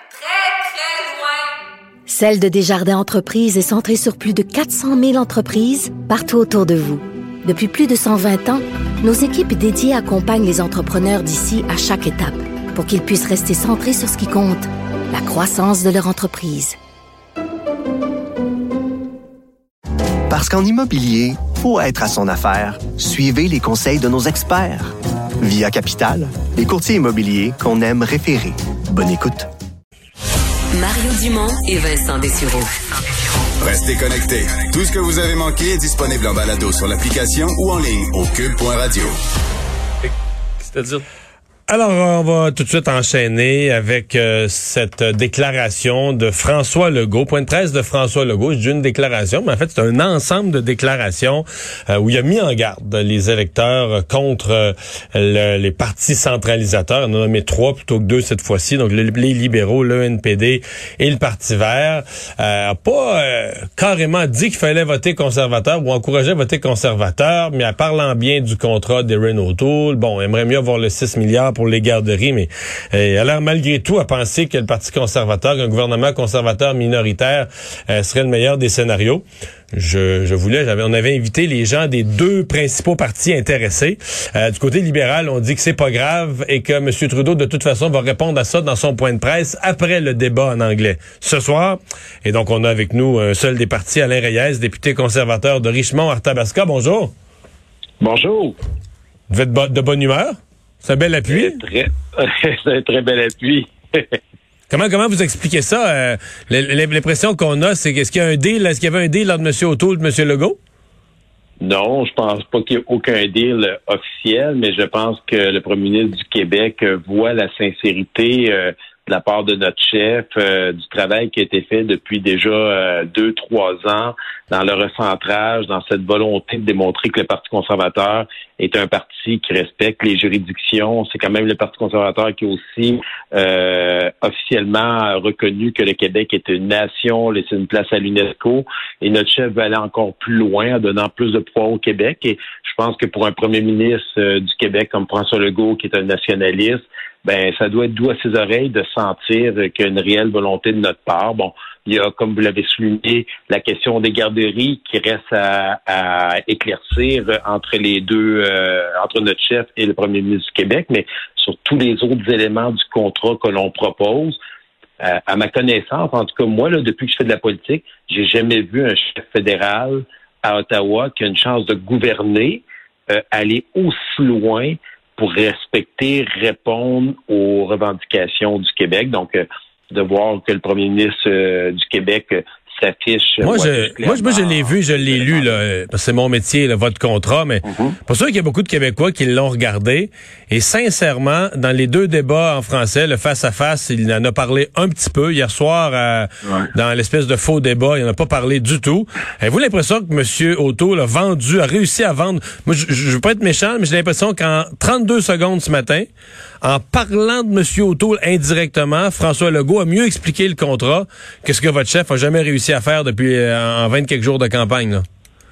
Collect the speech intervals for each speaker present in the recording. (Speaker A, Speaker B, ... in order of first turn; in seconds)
Speaker A: 2.1-16.8
Speaker B: 20.3-29.5
Speaker C: 30.7-32.7
Speaker D: 33.6-39.1
Speaker E: 40.7-41.0, 41.7-97.1, 99.3-101.6, 104.7-110.6, 183.4-206.1, 206.6-215.0
Speaker F: 98.0-98.5, 101.3-104.2, 111.6-164.4, 165.0-185.6, 187.7-188.0